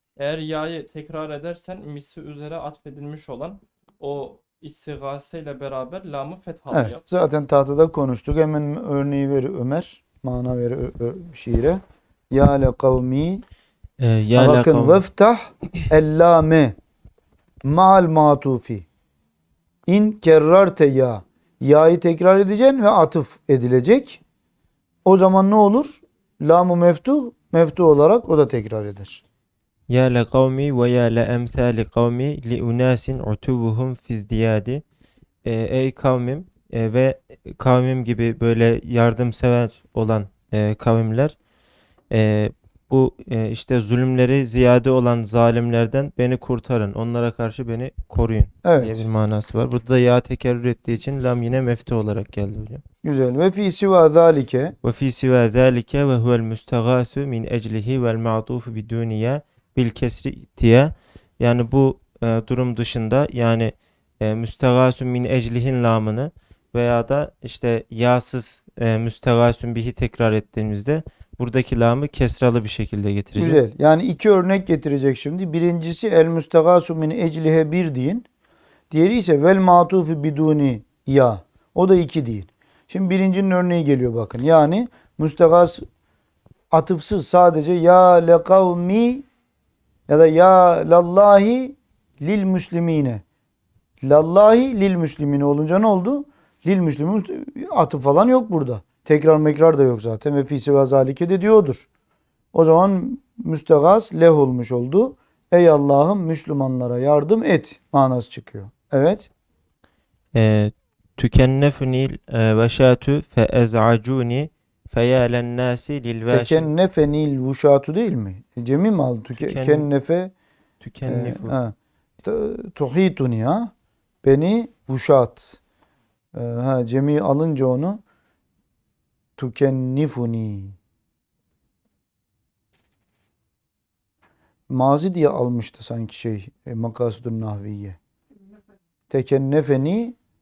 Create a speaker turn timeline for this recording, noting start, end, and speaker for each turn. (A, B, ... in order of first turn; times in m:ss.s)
0:00.2-0:07.0 A
0:06.7-0:13.4 B
0:14.0-0:15.0 C
0:14.4-0:16.8 B
0:17.6-0:18.8 B
0:19.9-0:24.2 B
0:25.0-0:29.2 B
0:29.9-0:34.8 C
0:35.4-0:41.4 C
0:42.1-0:52.8 C
0:48.6-0:49.0 B
0:53.0-0:54.7 B
0:54.8-1:13.6 C
1:13.4-1:18.2 B
1:18.9-1:25.8 B
1:26.7-1:29.2 B
1:30.1-1:33.2 B
1:34.0-1:41.8 B
1:42.5-1:49.3 B
1:50.3-1:56.7 C
1:56.3-2:00.3 B
1:59.4-1:59.9 C
2:00.8-2:01.6 C
2:01.0-2:03.7 B
2:04.2-2:05.6 B
2:06.3-2:08.0 B
2:09.4-2:10.7 B
2:14.7-2:18.0 B
2:19.1-2:20.2 B